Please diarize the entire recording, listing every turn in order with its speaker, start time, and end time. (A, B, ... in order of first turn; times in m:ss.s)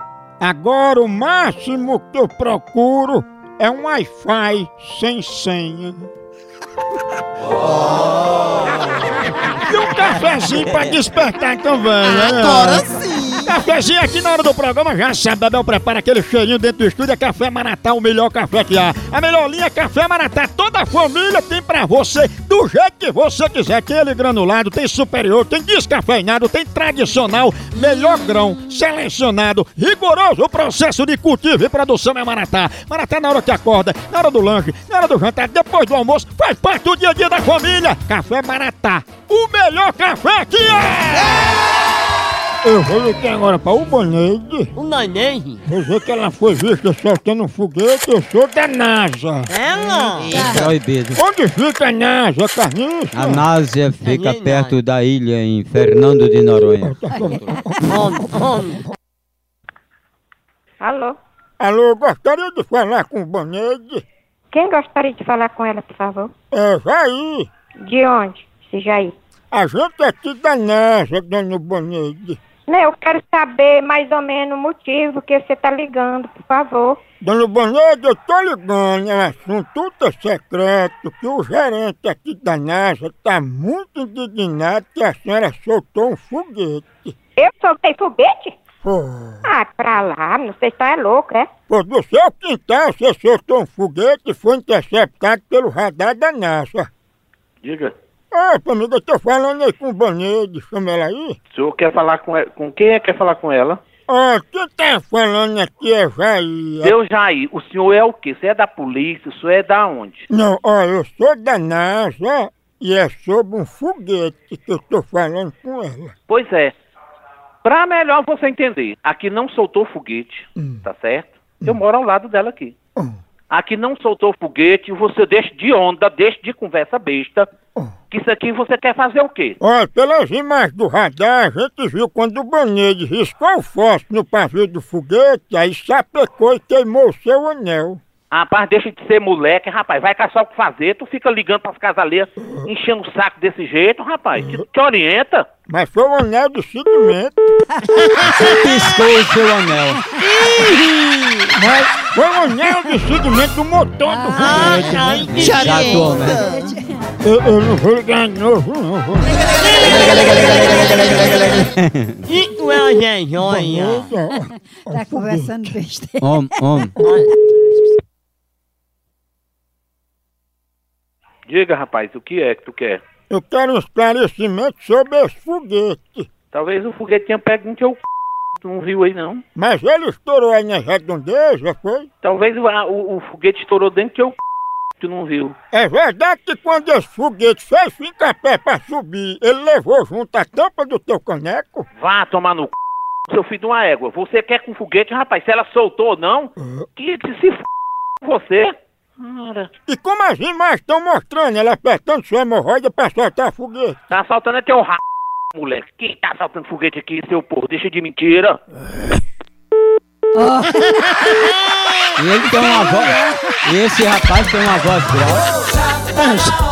0:00.4-0:06.1 A
0:09.2-0:12.9 A
0:13.4-0:41.6 A
0:42.6-0:44.7 A
0:44.8-0:45.6 B
0:45.6-0:49.5 A
0:49.5-0:50.6 B
0:50.3-0:50.7 C
0:50.5-0:51.2 D
0:51.2-0:53.4 A
0:53.1-0:57.0 D
0:54.0-0:54.8 B
0:56.8-0:57.9 A
0:57.8-0:58.8 B
1:00.8-1:01.2 E
1:01.6-1:04.0 A
1:04.5-1:06.3 E
1:06.5-1:07.5 A
1:07.8-1:09.1 E
1:09.5-1:12.4 A
1:12.7-1:17.0 E
1:17.2-1:27.2 A
1:27.4-1:28.6 E
1:28.8-1:29.4 A
1:29.5-1:31.5 E
1:31.7-1:36.9 A
1:37.6-1:37.9 F
1:38.3-1:41.4 A
1:41.5-1:43.8 F
1:44.1-1:46.9 A
1:46.8-1:50.3 F
1:50.3-1:56.1 A
1:56.3-1:56.7 F
1:57.6-2:02.7 F
2:03.5-2:07.5 F
2:08.1-2:09.6 F
2:09.6-2:18.0 A
2:18.3-2:25.4 F
2:25.7-2:27.4 A
2:28.1-2:28.5 B
2:28.4-2:30.0 D
2:30.4-2:31.6 B
2:31.5-2:35.5 A
2:34.0-2:34.7 C
2:34.4-2:36.6 B
2:35.0-2:36.4 D
2:36.2-2:37.1 C
2:37.2-2:39.5 A
2:40.6-2:41.5 B
2:41.6-2:42.2 D
2:42.3-2:44.1 B
2:43.4-2:45.8 A
2:44.9-2:46.4 C
2:46.2-2:47.0 D
2:47.0-2:47.3 B
2:51.5-2:53.0 F
2:53.3-2:56.3 A
2:56.5-2:58.0 F
2:58.6-2:59.4 F
2:59.6-3:02.1 A
3:02.2-3:04.4 F
3:05.0-3:05.6 F
3:05.7-3:11.9 A
3:12.0-3:12.7 F
3:13.3-3:17.6 F
3:18.2-3:19.7 F
3:19.9-3:24.0 A
3:24.1-3:25.0 F
3:25.5-3:28.6 F
3:30.4-3:31.3 C
3:32.2-3:35.5 D
3:32.6-3:33.4 C
3:36.2-3:36.5 D